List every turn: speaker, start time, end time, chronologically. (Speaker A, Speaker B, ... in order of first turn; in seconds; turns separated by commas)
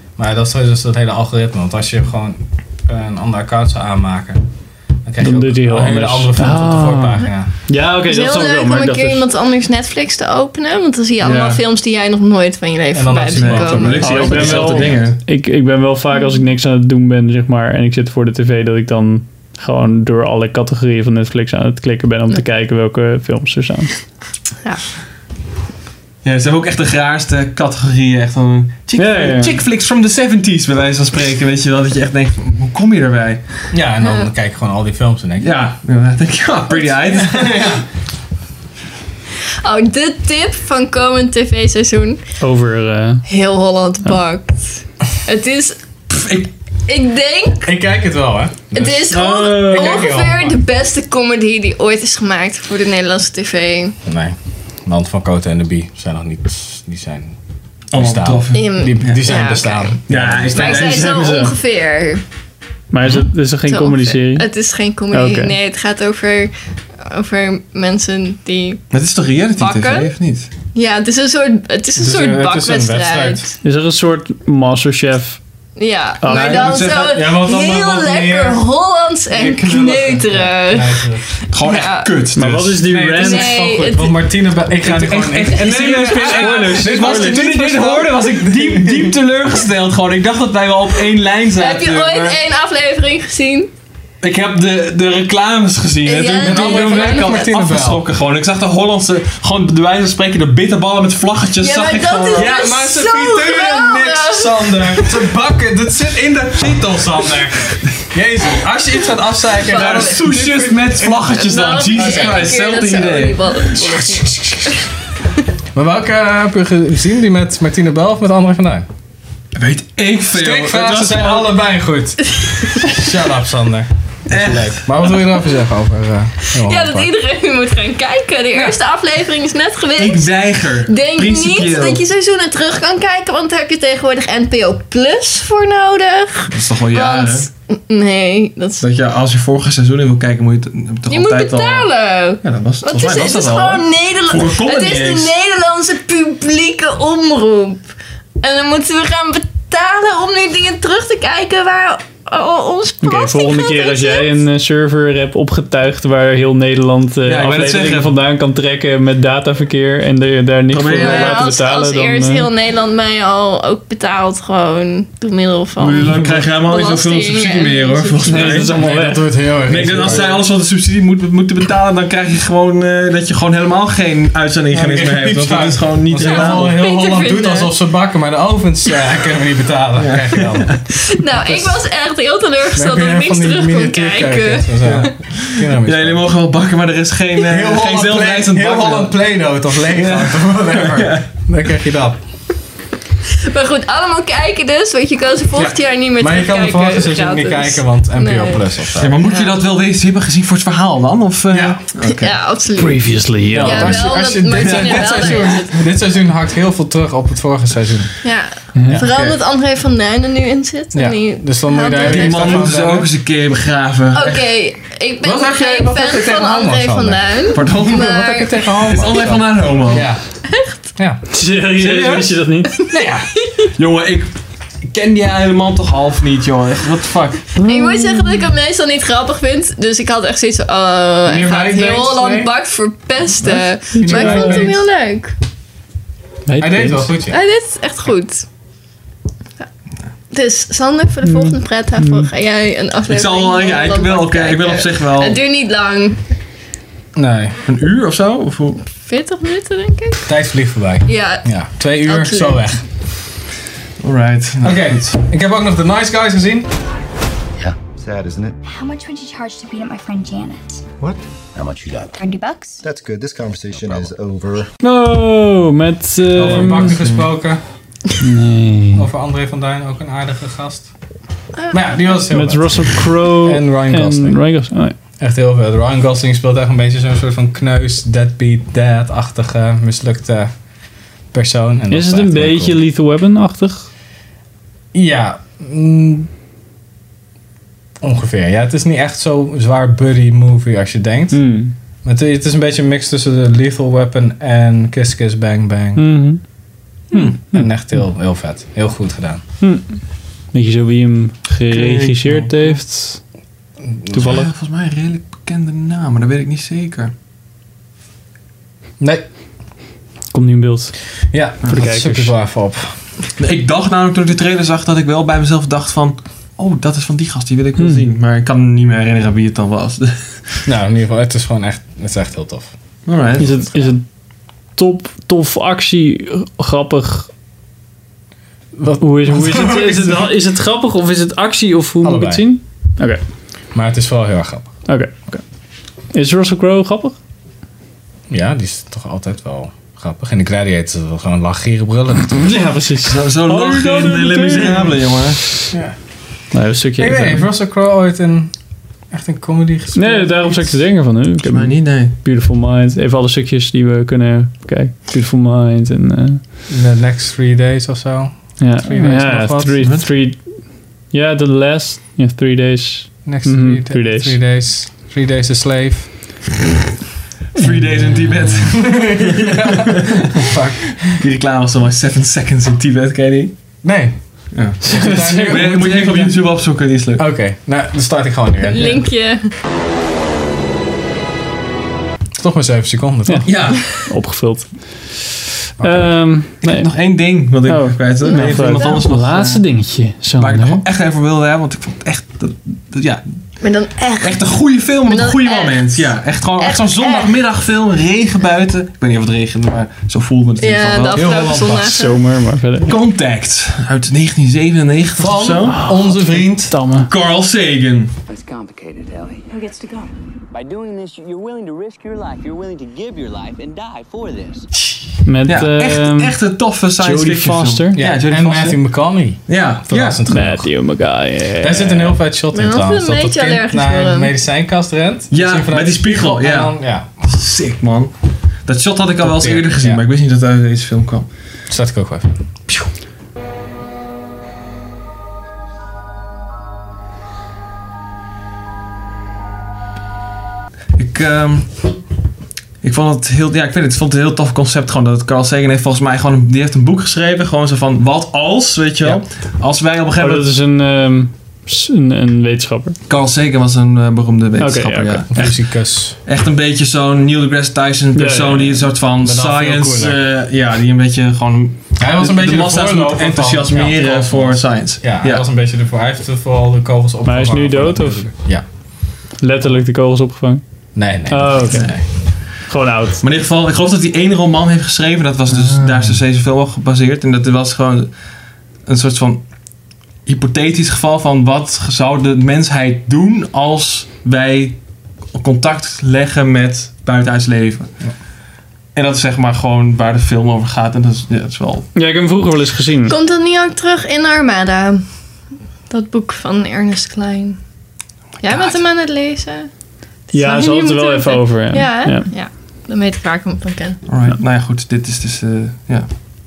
Speaker A: 0.1-4.5, Speaker A: 5.0-7.5, Speaker B: 5.2-9.2, Speaker C: 8.0-14.4, Speaker D: 11.2-11.6, Speaker A: 12.9-15.0, Speaker D: 13.3-15.2, Speaker B: 14.0-24.0, Speaker C: 16.1-16.4, Speaker D: 26.2-33.7, Speaker B: 29.0-29.6, Speaker A: 33.7-35.5, Speaker C: 34.0-34.3, Speaker D: 35.4-37.8, Speaker A: 37.2-37.8, Speaker C: 39.6-42.2, Speaker B: 42.4-43.2, Speaker C: 43.2-45.8, Speaker D: 46.1-46.5, Speaker C: 46.9-47.7, Speaker A: 47.6-50.6, Speaker C: 48.7-54.0, Speaker B: 49.1-50.0, Speaker A: 54.0-57.4, Speaker A: 57.9-61.0, Speaker D: 57.9-59.4, Speaker C: 58.5-60.0, Speaker D: 60.1-61.5, Speaker C: 60.5-62.2, Speaker B: 62.9-64.5, Speaker C: 63.6-68.9, Speaker B: 65.1-65.5, Speaker D: 68.9-70.5, Speaker C: 69.6-70.1, Speaker C: 70.7-73.5, Speaker A: 72.0-73.5, Speaker B: 73.6-75.4, Speaker C: 75.8-82.1, Speaker B: 76.2-76.6, Speaker D: 76.2-77.2, Speaker A: 76.7-78.6, Speaker A: 79.3-81.2, Speaker D: 81.5-82.8, Speaker B: 82.3-83.5, Speaker A: 82.8-89.1, Speaker C: 83.2-84.3, Speaker D: 84.8-92.4, Speaker B: 85.6-87.5, Speaker C: 91.5-93.7, Speaker D: 94.2-102.6, Speaker C: 96.0-97.5, Speaker A: 96.4-98.0, Speaker C: 101.6-105.2, Speaker A: 102.3-112.5, Speaker C: 109.6-110.2, Speaker D: 109.6-113.7, Speaker C: 111.3-114.8, Speaker A: 113.7-114.9, Speaker A: 115.7-118.9, Speaker D: 119.5-121.6, Speaker A: 120.3-127.1, Speaker D: 124.3-125.1, Speaker C: 126.6-138.8, Speaker D: 129.9-132.0, Speaker D: 136.5-137.5, Speaker D: 138.8-141.9, Speaker C: 141.1-147.9, Speaker D: 142.4-145.3, Speaker C: 148.4-154.3, Speaker B: 153.0-162.5, Speaker D: 157.2-158.1, Speaker D: 160.7-161.4, Speaker C: 160.9-168.5, Speaker D: 165.8-169.1, Speaker B: 168.2-169.3, Speaker A: 168.4-170.4, Speaker D: 169.6-176.8, Speaker A: 174.7-180.8, Speaker C: 176.2-177.7, Speaker D: 179.9-180.8, Speaker C: 181.0-184.9, Speaker A: 181.3-181.7, Speaker A: 182.7-186.3, Speaker D: 184.8-191.3, Speaker A: 187.4-192.2, Speaker C: 193.4-199.6, Speaker A: 195.6-199.2, Speaker D: 199.0-202.4, Speaker A: 201.5-201.8, Speaker C: 202.0-205.8, Speaker B: 202.8-204.1, Speaker A: 203.5-208.2, Speaker D: 204.6-205.5, Speaker C: 208.2-212.7, Speaker B: 208.7-209.0, Speaker A: 208.9-209.4, Speaker A: 210.9-213.1, Speaker D: 211.9-214.5, Speaker C: 214.1-219.1, Speaker A: 215.2-220.2, Speaker D: 217.5-218.2, Speaker D: 218.8-220.1, Speaker C: 220.5-220.8, Speaker A: 220.9-221.2, Speaker B: 221.3-222.7, Speaker D: 221.8-227.5, Speaker C: 222.9-223.7, Speaker B: 227.6-228.2, Speaker C: 227.6-235.3, Speaker A: 231.2-232.5, Speaker A: 233.4-234.8, Speaker B: 234.0-234.7, Speaker B: 236.4-237.1, Speaker A: 236.6-237.3, Speaker C: 237.3-238.5, Speaker C: 240.3-246.2, Speaker B: 241.2-242.3, Speaker D: 243.1-245.4, Speaker A: 247.1-247.6, Speaker D: 247.7-248.8, Speaker C: 249.0-250.2, Speaker A: 250.2-252.8, Speaker C: 251.1-252.8, Speaker D: 254.0-255.0, Speaker A: 254.6-256.7, Speaker E: 257.6-258.6, Speaker F: 258.6-260.8, Speaker E: 261.0-261.7, Speaker F: 262.1-262.8, Speaker E: 262.8-264.7, Speaker B: 264.8-267.0, Speaker A: 266.3-267.6, Speaker D: 266.6-267.4, Speaker B: 268.2-269.0, Speaker A: 268.9-270.9, Speaker C: 271.6-272.1, Speaker A: 271.7-274.6, Speaker B: 272.3-274.9, Speaker A: 275.2-280.5, Speaker A: 281.3-282.8, Speaker B: 281.9-283.9, Speaker A: 284.9-286.3, Speaker A: 288.0-296.3, Speaker B: 291.3-291.7, Speaker B: 295.9-296.4, Speaker B: 297.1-298.0, Speaker A: 297.1-299.4, Speaker B: 299.6-303.2, Speaker D: 301.7-302.8, Speaker A: 303.9-304.4, Speaker B: 304.1-304.5, Speaker D: 304.2-307.1, Speaker A: 309.0-309.2, Speaker B: 310.3-312.3, Speaker A: 311.3-313.1, Speaker D: 313.4-320.6, Speaker B: 317.8-318.0, Speaker A: 320.6-322.7, Speaker D: 323.1-323.7, Speaker A: 323.3-323.6, Speaker B: 323.4-327.3, Speaker A: 328.8-330.3, Speaker B: 329.0-333.2, Speaker A: 332.0-332.5, Speaker A: 333.7-334.7, Speaker B: 334.9-335.4, Speaker B: 336.1-337.1, Speaker A: 338.3-342.6, Speaker B: 342.4-345.1, Speaker D: 343.0-345.4, Speaker A: 345.7-346.0, Speaker B: 346.5-347.5, Speaker A: 347.0-348.5, Speaker A: 349.1-350.9, Speaker B: 349.9-356.4, Speaker D: 351.4-352.1, Speaker A: 356.7-359.8, Speaker B: 358.6-364.4, Speaker D: 359.8-360.1, Speaker A: 363.2-366.4, Speaker D: 367.5-369.7, Speaker B: 367.6-368.3, Speaker A: 368.8-371.0, Speaker D: 371.0-373.7, Speaker A: 373.8-379.1, Speaker D: 374.5-377.2, Speaker B: 375.0-375.6, Speaker C: 378.6-379.5, Speaker A: 382.4-383.7, Speaker B: 383.2-390.8, Speaker D: 383.4-383.8, Speaker A: 385.8-386.2, Speaker D: 386.6-401.3, Speaker C: 388.2-389.0, Speaker C: 393.6-397.3, Speaker C: 400.6-402.2, Speaker A: 401.1-401.9, Speaker B: 401.8-402.9, Speaker D: 402.8-405.9, Speaker A: 405.2-406.8, Speaker B: 405.7-407.1, Speaker D: 407.1-408.1, Speaker G: 408.3-409.8, Speaker G: 410.5-414.6, Speaker D: 414.7-418.9, Speaker B: 415.2-418.0, Speaker A: 417.9-427.1, Speaker D: 419.5-420.2, Speaker B: 420.3-422.2, Speaker C: 422.5-424.3, Speaker D: 425.3-431.3, Speaker A: 429.2-430.0, Speaker A: 431.7-432.3, Speaker D: 440.9-441.9, Speaker D: 442.8-450.5, Speaker B: 450.2-453.0, Speaker D: 453.1-465.4, Speaker B: 454.6-455.3, Speaker A: 455.3-456.2, Speaker B: 458.1-458.9, Speaker A: 459.2-460.2, Speaker A: 462.0-468.6, Speaker B: 467.2-468.3, Speaker B: 469.4-473.2, Speaker A: 470.9-472.1, Speaker D: 471.7-472.0, Speaker D: 473.2-479.7, Speaker D: 480.2-488.0, Speaker D: 488.9-491.9, Speaker B: 491.9-493.1, Speaker C: 493.1-495.1, Speaker C: 495.9-497.6, Speaker C: 498.4-499.7, Speaker D: 498.4-498.8, Speaker C: 500.3-504.0, Speaker B: 500.3-502.3, Speaker D: 504.1-506.1